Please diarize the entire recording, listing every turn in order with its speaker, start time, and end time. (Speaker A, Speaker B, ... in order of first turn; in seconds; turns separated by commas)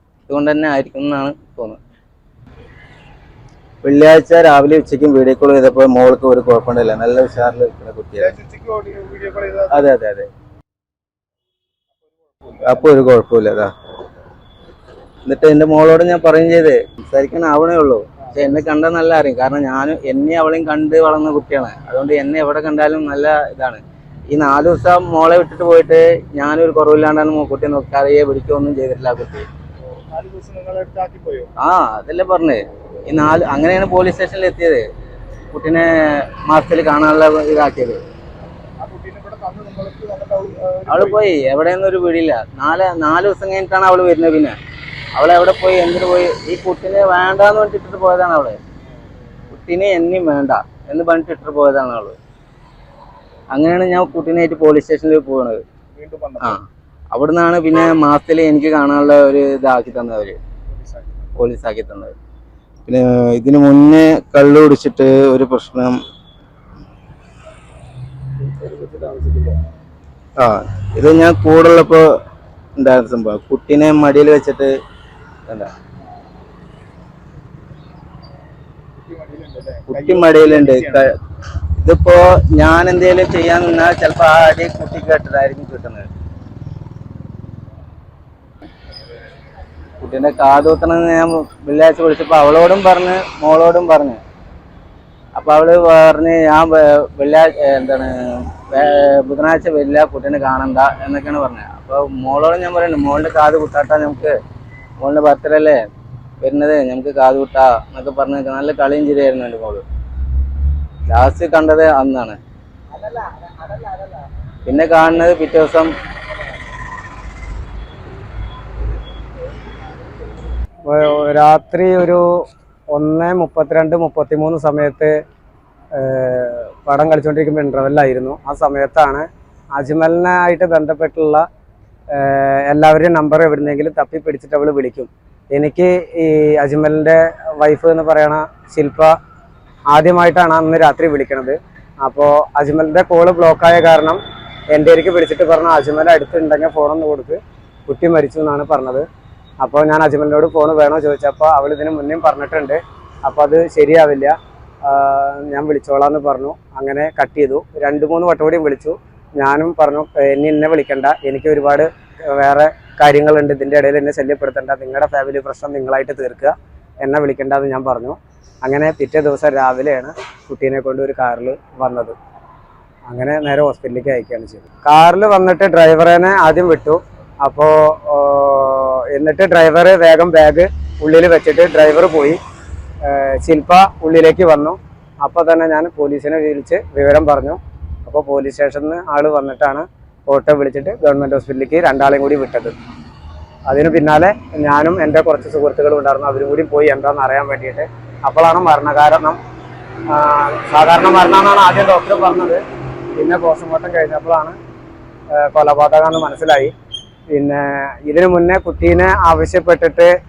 Speaker A: 0.3-1.8, Speaker A: 3.8-8.3, Speaker B: 8.2-9.9, Speaker A: 9.7-10.3, Speaker B: 12.0-12.6, Speaker A: 12.7-13.7, Speaker A: 15.2-29.5, Speaker B: 29.8-31.5, Speaker A: 31.6-34.8, Speaker A: 35.5-38.0, Speaker B: 38.8-41.2, Speaker A: 40.9-44.5, Speaker A: 45.1-48.6, Speaker A: 49.5-52.2, Speaker A: 53.5-55.6, Speaker B: 55.9-56.6, Speaker A: 56.4-60.4, Speaker B: 60.7-61.3, Speaker A: 61.4-62.1, Speaker A: 62.9-66.0, Speaker B: 68.4-69.7, Speaker A: 70.4-72.0, Speaker A: 72.8-74.7, Speaker B: 79.0-81.1, Speaker A: 79.9-81.2, Speaker A: 81.8-86.1, Speaker A: 90.0-94.2, Speaker A: 95.3-104.3, Speaker A: 105.0-105.8, Speaker A: 106.4-109.8, Speaker A: 111.1-112.4, Speaker B: 113.0-114.2, Speaker A: 114.6-115.9, Speaker C: 120.9-122.2, Speaker C: 122.9-125.1, Speaker C: 126.0-131.4, Speaker C: 132.1-139.1, Speaker C: 139.9-144.2, Speaker C: 144.7-149.0, Speaker C: 149.6-154.3, Speaker C: 154.9-172.1, Speaker C: 173.1-182.4, Speaker C: 183.1-192.7, Speaker C: 193.7-199.4, Speaker C: 200.1-204.6, Speaker C: 205.4-206.7, Speaker C: 207.3-210.1